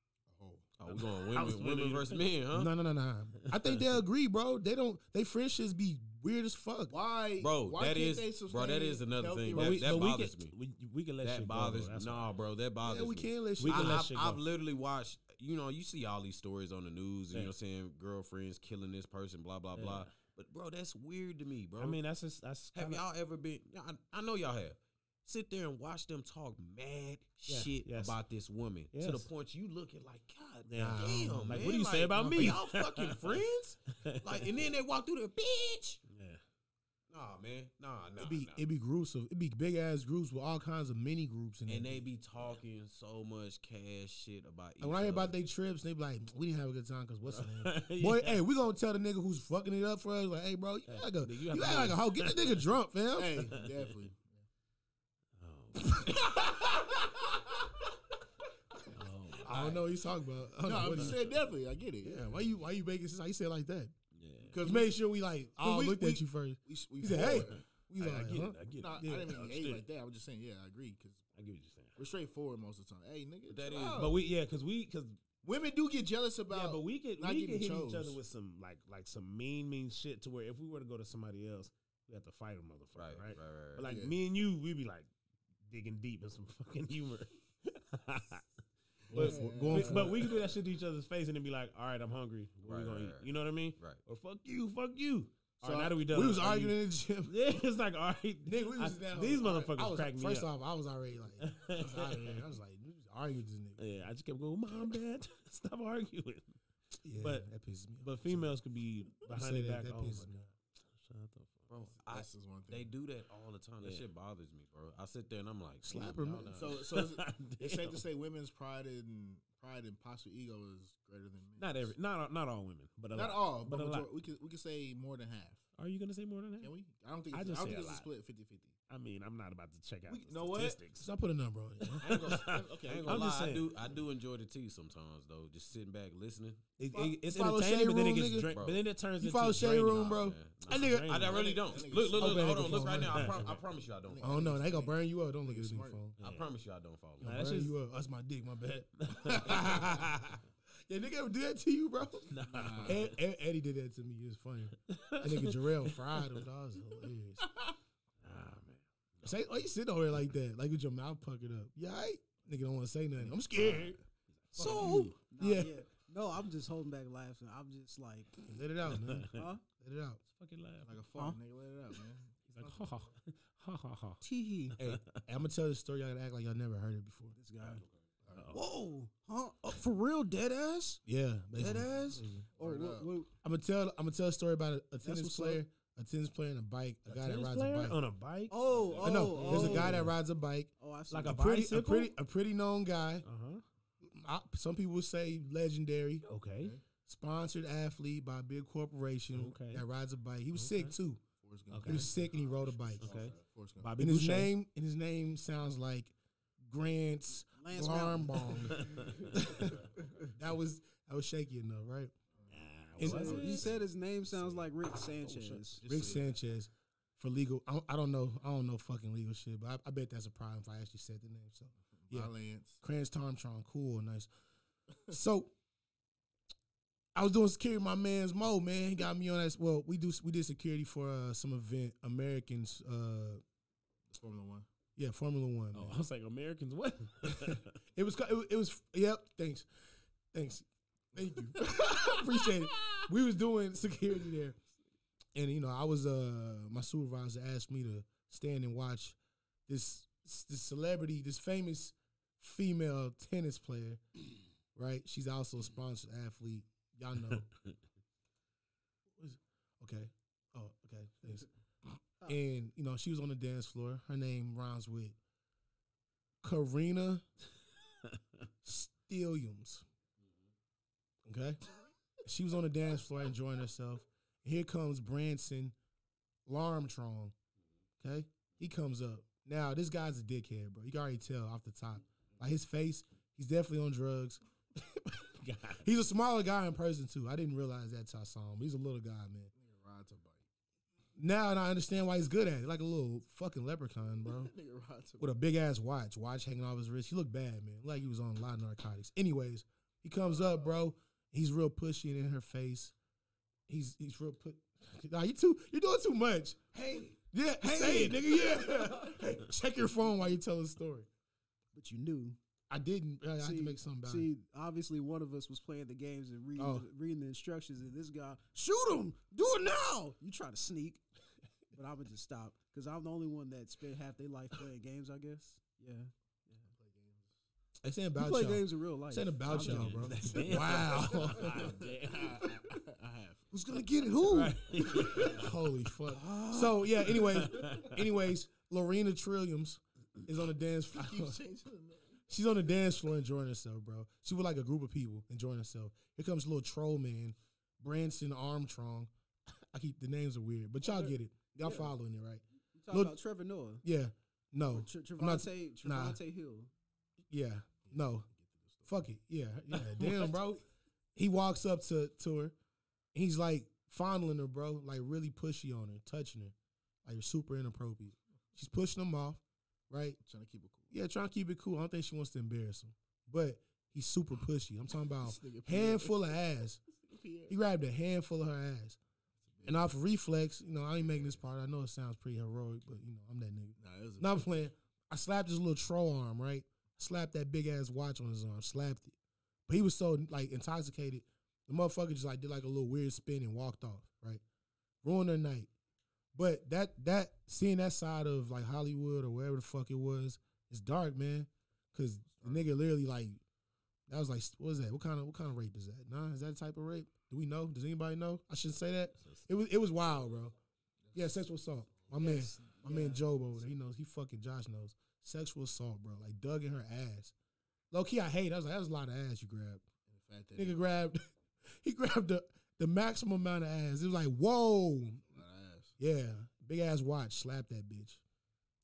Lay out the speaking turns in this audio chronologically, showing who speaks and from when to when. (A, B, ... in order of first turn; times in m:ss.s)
0:00.3-0:00.7 A
0:00.8-0:02.7 B
0:00.9-0:02.3 C
0:02.5-0:06.9 D
0:06.9-0:10.1 A
0:07.4-0:10.5 B
0:09.5-0:12.3 C
0:11.2-0:22.0 B
0:12.8-0:14.1 D
0:13.6-0:14.4 C
0:19.7-0:20.1 C
0:21.8-0:23.0 C
0:22.7-0:36.0 B
0:27.5-0:28.2 C
0:28.9-0:29.3 C
0:30.7-0:33.4 C
0:30.8-0:32.5 D
0:34.0-0:34.5 C
0:36.1-0:36.4 C
0:37.1-0:38.6 B
0:38.2-0:42.1 D
0:41.7-0:45.3 B
0:44.8-0:53.5 D
0:47.3-0:48.4 C
0:50.9-0:52.6 C
0:53.1-0:54.4 A
0:53.5-0:53.9 C
0:55.4-0:56.4 C
0:55.8-0:56.9 D
0:58.9-0:59.8 C
0:59.4-1:01.2 D
1:00.6-1:02.4 A
1:00.9-1:01.1 C
1:02.0-1:03.9 D
1:04.1-1:04.6 C
1:04.5-1:05.0 A
1:04.6-1:09.4 D
1:05.6-1:07.6 A
1:07.1-1:09.8 C
1:08.8-1:11.2 A
1:11.3-1:12.0 C
1:12.0-1:14.2 A
1:13.5-1:14.1 B
1:14.0-1:15.2 C
1:15.4-1:18.2 A
1:16.5-1:25.1 C
1:23.0-1:23.9 B
1:23.8-1:24.2 A
1:25.7-1:28.5 C
1:29.1-1:30.4 A
1:29.1-1:40.5 C
1:29.1-1:30.3 D
1:32.6-1:34.0 B
1:35.6-1:36.0 A
1:36.1-1:37.3 D
1:38.4-1:43.8 D
1:41.4-1:42.4 C
1:43.8-1:46.5 C
1:47.0-1:48.5 D
1:47.2-1:47.4 C
1:48.0-1:51.9 C
1:49.3-1:50.4 D
1:51.7-1:56.8 B
1:52.0-1:52.9 A
1:55.8-1:56.6 D
1:56.5-2:01.9 A
1:56.7-1:58.0 C
2:01.6-2:04.1 C
2:03.1-2:05.6 A
2:05.8-2:06.7 C
2:06.6-2:08.7 A
2:07.3-2:08.1 C
2:08.9-2:11.1 C
2:10.1-2:10.8 A
2:11.0-2:12.2 D
2:11.8-2:13.8 C
2:12.0-2:16.6 B
2:12.3-2:13.4 A
2:16.8-2:18.5 D
2:16.8-2:20.1 C
2:18.5-2:18.8 B
2:19.2-2:21.2 D
2:19.8-2:24.5 B
2:20.6-2:21.4 C
2:21.2-2:26.0 A
2:22.2-2:23.4 D
2:23.0-2:23.6 C
2:24.2-2:26.2 D
2:26.2-2:26.5 C
2:26.2-2:27.4 B
2:27.2-2:32.3 D
2:27.2-2:27.7 C
2:29.0-2:29.9 C
2:32.3-2:33.1 C
2:32.4-2:33.1 A
2:32.8-2:37.4 D
2:34.9-2:36.4 C
2:38.2-2:39.3 C
2:39.2-2:44.0 D
2:43.2-2:44.0 A
2:44.5-2:48.4 E
2:44.6-2:45.0 C
2:44.6-2:45.1 A
2:44.6-2:45.8 D
2:48.4-2:50.2 D
2:48.8-2:49.4 C
2:49.3-2:49.6 E
2:50.4-2:50.9 C
2:50.8-2:53.0 A
2:52.5-2:54.2 C
2:54.2-2:54.8 E
2:54.8-2:55.2 C
2:54.8-2:57.3 D
2:57.3-2:57.8 E
2:57.6-2:58.6 C
2:58.2-2:58.5 A
2:58.5-3:01.0 E
3:01.0-3:02.4 D
3:01.5-3:03.3 E
3:02.6-3:03.1 A
3:03.4-3:08.0 D
3:05.0-3:05.6 E
3:07.1-3:10.1 C
3:08.5-3:10.0 E
3:08.7-3:09.3 A
3:09.0-3:10.7 D
3:10.8-3:11.4 E
3:11.1-3:12.1 C
3:11.2-3:13.2 D
3:13.2-3:13.6 C
3:14.0-3:16.2 D
3:16.2-3:16.8 C
3:17.0-3:21.2 D
3:19.3-3:19.8 C
3:20.5-3:20.9 C
3:21.4-3:23.9 A
3:21.7-3:22.2 C
3:21.8-3:23.1 D
3:23.0-3:24.5 C
3:24.0-3:32.1 D
3:27.6-3:29.1 E
3:28.7-3:29.3 C
3:32.4-3:33.8 A
3:32.5-3:34.7 C
3:33.0-3:33.6 D
3:33.0-3:35.8 E
3:35.2-3:35.6 C
3:35.7-3:36.3 A
3:35.8-3:42.3 D
3:42.0-3:42.8 A
3:42.8-3:44.3 D
3:45.1-3:45.5 D
3:47.1-3:53.4 D
3:54.1-3:54.7 A
3:55.0-3:56.0 D
3:55.7-3:57.7 C
3:57.2-3:59.7 D
4:00.3-4:04.6 D
4:01.2-4:03.0 A
4:05.3-4:09.2 D
4:09.7-4:14.0 D
4:14.7-4:17.5 D
4:19.2-4:25.2 D
4:26.4-4:27.2 D
4:28.6-4:29.8 D
4:31.2-4:31.6 D
4:32.2-4:35.7 D
4:36.4-4:37.3 D
4:38.0-4:49.5 D
4:45.4-4:45.9 C
4:49.5-4:50.4 A
4:51.2-4:54.5 D
4:54.3-4:55.3 A
4:55.2-5:02.9 D
5:03.7-5:11.1 D
5:07.6-5:09.1 E
5:11.7-5:12.4 E
5:12.7-5:14.3 D
5:13.4-5:21.0 E
5:16.6-5:16.8 D
5:21.7-5:26.7 E
5:26.7-5:27.3 A
5:27.8-5:31.7 D
5:28.1-5:30.3 E
5:29.5-5:32.5 C
5:30.7-5:33.5 A
5:33.5-5:41.4 D
5:34.3-5:35.5 C
5:36.1-5:37.3 E
5:37.1-5:38.0 C
5:40.9-5:42.2 A
5:42.3-5:53.1 D
5:50.8-5:51.9 E
5:52.7-5:53.8 E
5:53.8-5:56.2 D
5:54.7-5:56.7 E
5:57.3-5:58.3 D
5:57.8-5:58.9 A
5:58.9-6:00.6 D
5:59.9-6:00.3 C
6:01.2-6:02.5 D
6:03.1-6:06.5 D
6:07.0-6:10.2 D
6:10.2-6:10.9 A
6:10.9-6:16.8 D
6:15.2-6:16.3 A
6:17.0-6:17.5 A
6:17.5-6:19.0 D
6:19.4-6:19.9 A
6:19.6-6:29.1 D
6:21.0-6:21.3 A
6:23.8-6:24.6 A
6:29.7-6:34.4 D
6:35.0-6:35.7 D
6:36.3-6:43.4 D
6:42.3-6:42.7 A
6:44.1-6:50.5 D
6:49.2-6:49.5 C
6:51.0-6:51.4 A
6:51.1-6:57.3 D
6:52.2-6:53.2 E
6:57.9-6:59.8 D
7:00.1-7:00.8 A
7:00.6-7:05.4 D
7:05.3-7:05.9 A
7:06.0-7:08.2 D